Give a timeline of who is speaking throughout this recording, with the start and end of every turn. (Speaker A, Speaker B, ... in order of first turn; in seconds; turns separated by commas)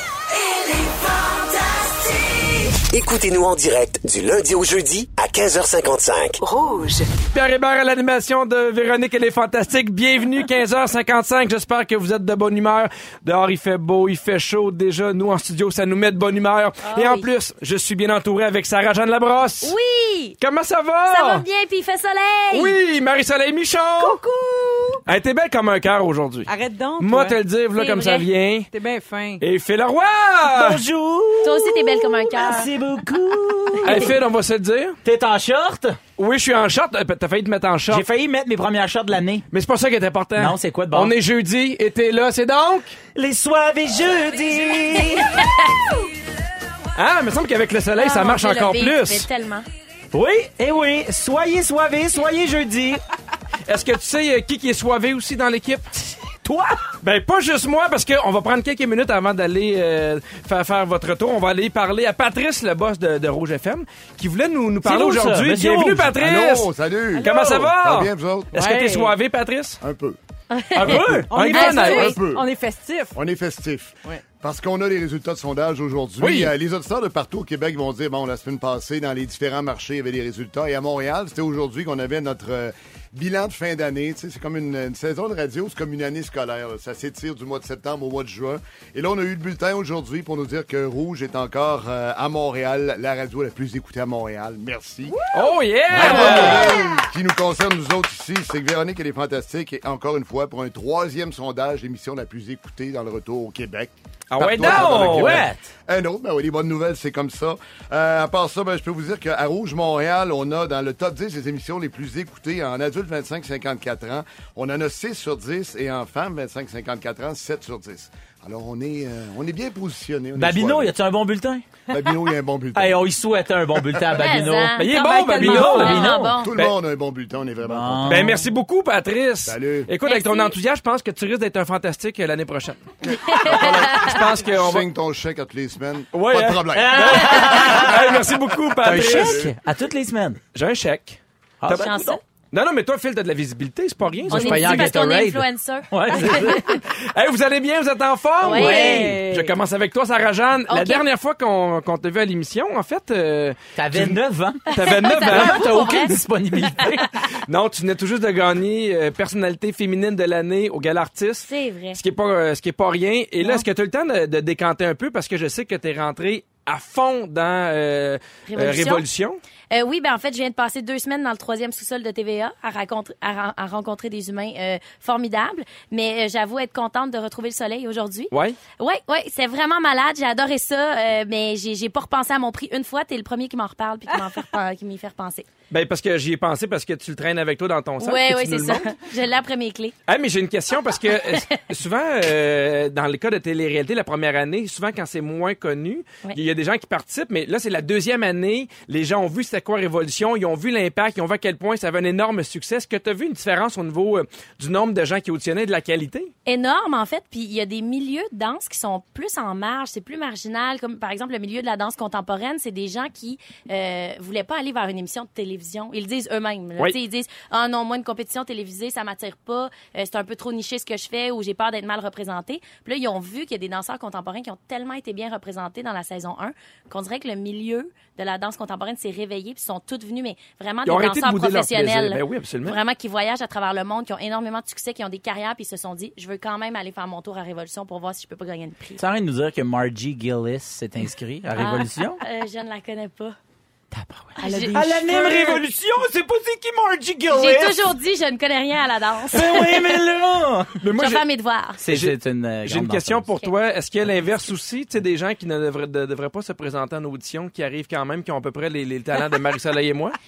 Speaker A: 2.7-7.0, Speaker B: 7.3-19.7, Speaker C: 16.8-17.3, Speaker C: 19.6-20.4, Speaker B: 20.4-21.4, Speaker C: 21.1-22.8, Speaker B: 22.5-24.2, Speaker D: 24.0-25.0, Speaker B: 25.1-28.7, Speaker D: 26.5-27.4, Speaker C: 27.8-28.3, Speaker D: 28.7-29.4, Speaker B: 29.4-30.8, Speaker E: 30.5-34.2, Speaker C: 31.4-32.7, Speaker B: 33.8-35.0, Speaker E: 35.0-36.0, Speaker B: 36.2-38.1, Speaker E: 37.9-39.5, Speaker B: 39.5-43.0, Speaker E: 40.4-41.1, Speaker E: 43.1-45.5, Speaker C: 45.4-45.7, Speaker B: 47.0-49.3, Speaker C: 48.0-49.7, Speaker E: 50.1-53.0, Speaker B: 53.7-55.9, Speaker E: 56.4-56.9, Speaker B: 57.0-69.8, Speaker E: 64.8-66.2, Speaker F: 66.2-68.5, Speaker E: 67.2-67.6, Speaker D: 68.5-69.1, Speaker F: 69.8-70.2, Speaker C: 70.5-71.0, Speaker E: 70.8-71.3, Speaker B: 70.8-72.2, Speaker D: 71.3-73.2, Speaker C: 71.5-72.1, Speaker F: 72.0-72.5, Speaker F: 73.2-95.2, Speaker B: 76.2-76.5, Speaker B: 95.3-96.8, Speaker F: 95.9-120.9, Speaker E: 96.0-96.8, Speaker B: 104.3-105.5, Speaker E: 104.6-105.6, Speaker E: 120.3-121.7, Speaker F: 121.9-123.0, Speaker E: 122.8-124.8, Speaker C: 124.1-126.5, Speaker B: 124.8-126.8, Speaker D: 125.0-126.0, Speaker E: 125.5-126.4, Speaker F: 126.4-128.4, Speaker E: 127.7-128.4, Speaker B: 128.1-134.9, Speaker F: 129.5-129.9, Speaker C: 130.1-130.5, Speaker F: 133.2-137.8, Speaker C: 133.3-134.1, Speaker B: 136.1-139.5, Speaker E: 136.7-138.2, Speaker E: 138.8-140.4, Speaker F: 139.1-139.4, Speaker B: 140.6-144.9, Speaker E: 141.6-142.1, Speaker C: 141.7-142.2, Speaker E: 144.3-146.7, Speaker C: 144.3-146.8, Speaker B: 147.0-154.2, Speaker D: 148.4-149.6, Speaker C: 148.4-149.1, Speaker E: 148.6-149.2, Speaker C: 150.7-151.1, Speaker E: 153.8-157.1, Speaker B: 154.7-155.8, Speaker C: 154.8-156.2, Speaker B: 157.5-169.4, Speaker C: 161.4-162.0, Speaker C: 168.5-169.1, Speaker C: 169.7-185.5, Speaker B: 178.3-178.6, Speaker B: 185.7-188.9, Speaker C: 188.0-189.9, Speaker B: 190.1-206.3, Speaker C: 191.1-191.5, Speaker C: 206.5-239.0, Speaker B: 230.9-232.8, Speaker E: 239.0-242.2, Speaker C: 241.6-243.4, Speaker E: 243.9-247.8, Speaker C: 244.4-245.1, Speaker B: 245.3-245.5, Speaker C: 247.3-249.5, Speaker E: 249.3-251.1, Speaker B: 250.8-251.2, Speaker C: 251.0-251.8, Speaker E: 251.8-253.3, Speaker B: 251.9-260.1